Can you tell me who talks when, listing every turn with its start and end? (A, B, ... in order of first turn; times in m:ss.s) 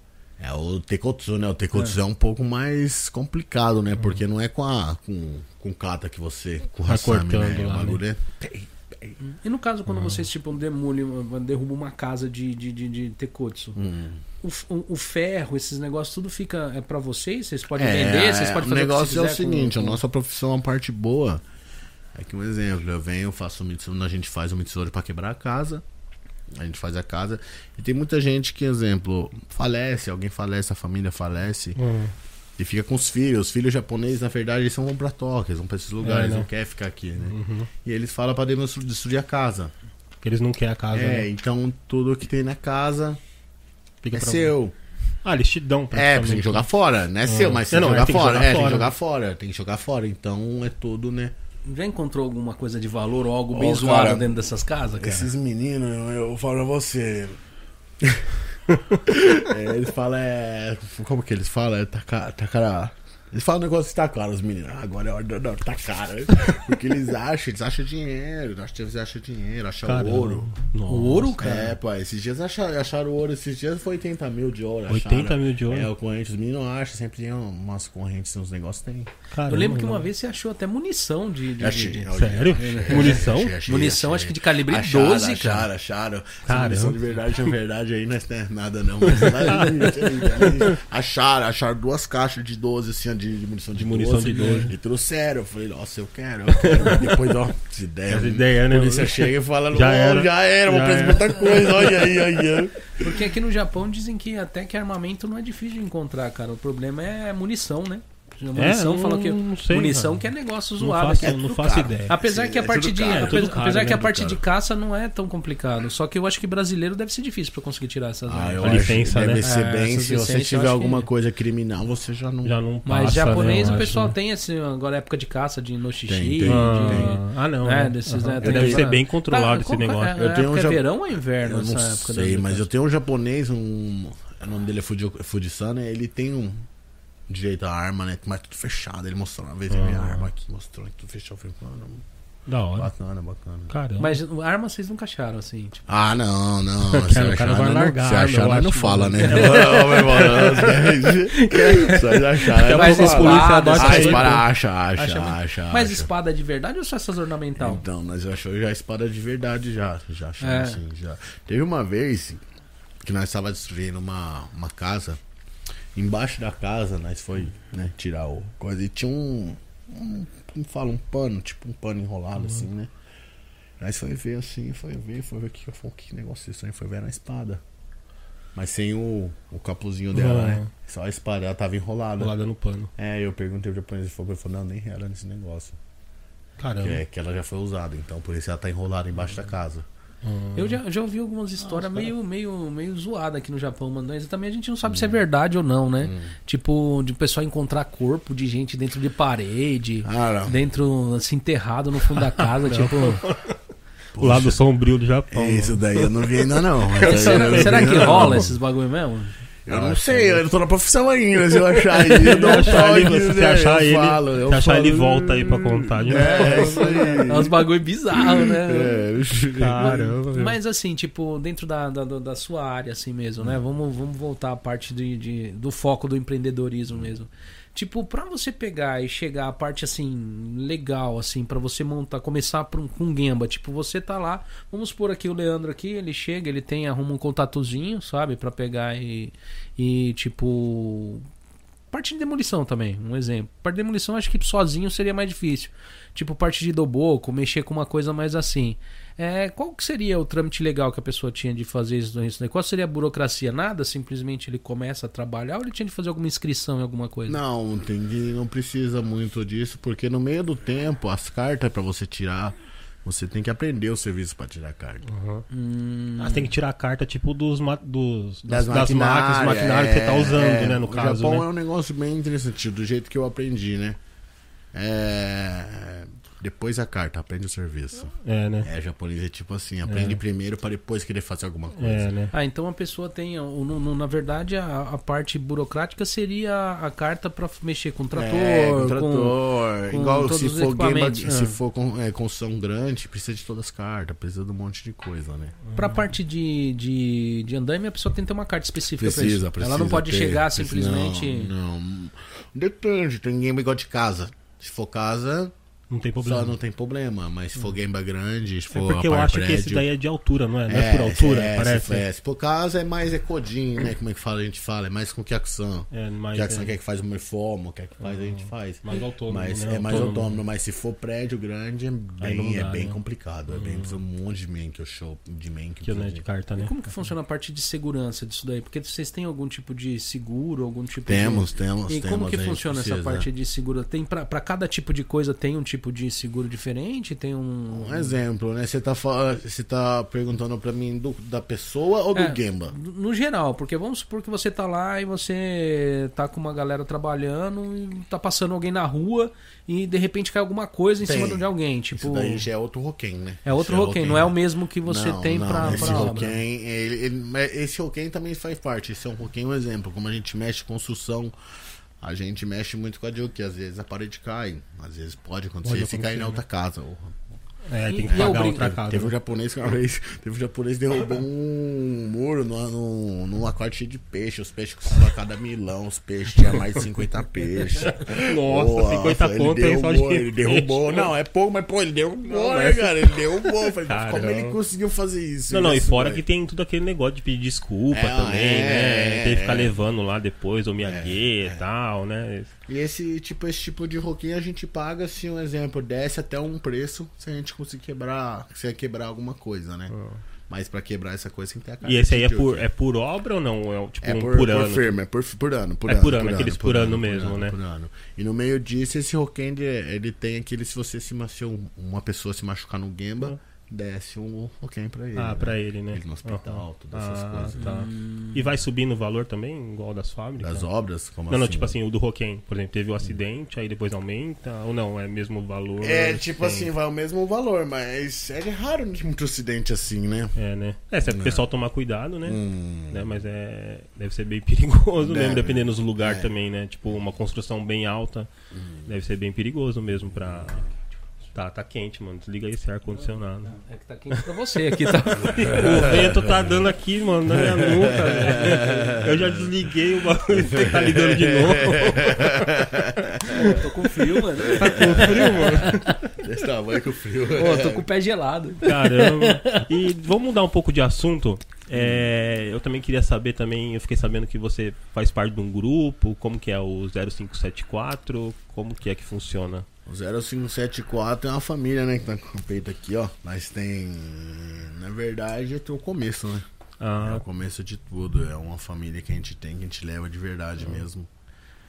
0:00.4-0:09.2 A
0:06.9-0:08.0 B
0:09.2-0:13.8 C
0:09.9-0:10.2 B
0:13.8-0:14.2 A
0:14.4-0:20.0 C
0:17.8-0:21.4 A
0:22.1-0:25.8 A
0:26.5-0:31.8 A
0:31.8-0:32.1 B
0:32.6-0:39.7 A
0:36.0-0:36.5 B
0:37.3-0:37.7 B
0:40.2-0:41.3 B
0:40.9-0:43.2 A
0:44.0-0:44.5 B
0:44.1-0:44.7 A
0:45.2-0:46.7 B
0:45.9-0:51.4 A
0:47.2-0:48.9 B
0:51.6-0:55.3 C
0:53.5-0:54.3 A
0:55.0-0:57.4 A
0:58.0-0:58.4 A
0:59.0-1:10.5 A
1:09.8-1:11.4 B
1:10.9-1:11.7 C
1:11.4-1:19.1 A
1:14.9-1:15.9 B
1:19.3-1:20.1 B
1:19.5-1:25.7 C
1:21.6-1:43.2 A
1:22.1-1:23.5 B
1:26.4-1:27.0 B
1:29.1-1:30.6 B
1:33.7-1:34.7 B
1:36.6-1:37.2 B
1:38.1-1:42.1 B
1:43.0-1:51.4 C
1:48.5-1:50.2 B
1:50.8-1:52.1 B
1:51.2-1:54.4 A
1:52.1-2:01.1 C
1:53.1-1:54.2 B
1:58.3-2:02.5 A
1:58.6-1:59.4 B
2:02.4-2:04.1 B
2:02.8-2:12.7 C
2:06.1-2:07.2 A
2:06.4-2:10.2 B
2:08.4-2:08.9 A
2:10.1-2:16.6 A
2:17.3-2:22.0 A
2:19.7-2:20.2 B
2:22.5-2:22.9 B
2:22.7-2:23.7 A
2:23.7-2:24.2 B
2:24.0-2:25.8 C
2:25.9-2:36.1 A
2:26.8-2:30.7 B
2:29.2-2:34.4 C
2:32.6-2:34.4 B
2:35.7-2:37.8 C
2:37.6-2:42.4 A
2:40.4-2:40.8 C
2:43.0-2:45.2 A
2:45.9-2:52.9 A
2:53.8-2:57.6 A
2:58.5-3:02.3 A
3:00.1-3:00.7 B
3:02.2-3:02.9 B
3:03.0-3:05.8 A
3:06.6-3:07.0 B
3:06.8-3:09.8 A
3:10.2-3:10.8 B
3:10.6-3:23.2 C
3:11.6-3:12.1 A
3:14.8-3:15.2 A
3:16.0-3:16.4 A
3:20.0-3:20.6 A
3:22.4-3:23.6 B
3:24.1-3:24.6 A
3:24.2-3:28.5 B
3:25.3-3:28.5 A
3:27.0-3:30.4 C
3:29.7-3:40.1 A
3:32.0-3:37.2 B
3:32.2-3:32.8 C
3:36.1-3:39.0 C
3:39.6-3:40.5 B
3:39.8-4:01.2 C
4:01.9-4:17.4 C
4:17.3-4:25.0 A
4:25.1-4:25.4 B
4:25.5-4:26.5 C
4:26.2-4:31.4 B
4:28.4-4:34.0 A
4:34.7-4:42.1 A
4:38.2-4:38.7 B
4:39.8-4:40.2 B
4:41.8-4:42.3 B
4:42.3-4:51.6 C
4:48.1-4:55.6 A
4:55.7-4:56.0 B
4:55.8-5:01.5 C
4:59.0-5:05.5 A
5:05.9-5:06.5 B
5:06.2-5:09.9 A
5:08.7-5:12.0 B
5:10.7-5:26.2 A
5:15.9-5:16.7 B
5:18.0-5:20.4 B
5:22.2-5:23.0 B
5:23.5-5:24.0 B
5:25.8-5:26.7 B
5:26.6-5:38.2 C
5:31.0-5:33.3 A
5:37.7-5:42.8 A
5:42.1-5:52.4 C
5:51.0-6:01.3 A
5:53.4-5:56.3 C
5:55.6-5:56.3 B
6:02.0-6:07.2 A
6:05.6-6:06.4 B
6:07.7-6:09.1 B
6:07.9-6:08.7 C
6:08.1-6:26.2 A
6:17.8-6:21.1 B
6:22.3-6:24.6 B
6:25.5-6:32.5 B
6:27.9-6:29.8 A
6:30.8-6:31.6 A
6:32.7-6:39.9 A
6:39.9-6:40.2 B
6:40.5-6:42.7 A
6:41.8-6:44.9 B
6:44.0-6:57.7 A
6:45.9-6:47.6 B
6:55.2-7:00.7 B
6:57.6-6:58.3 C
7:00.4-7:01.8 A
7:01.3-7:06.7 B
7:05.8-7:10.3 A
7:10.4-7:18.3 B
7:11.0-7:11.4 A
7:12.2-7:13.2 A
7:15.0-7:16.3 A
7:18.5-7:18.9 A
7:18.8-7:20.7 B
7:20.1-7:20.6 A
7:21.3-7:23.5 B
7:23.0-7:25.9 C
7:24.9-7:32.6 B
7:25.1-7:26.7 A
7:27.2-7:29.6 A
7:30.3-7:37.9 A
7:33.3-7:33.6 B
7:33.3-7:36.0 C
7:34.5-7:35.8 B
7:37.3-7:39.6 C
7:38.6-7:49.6 B
7:41.7-7:42.1 A
7:49.8-7:56.4 A
7:56.8-7:57.2 B
7:57.0-8:01.1 A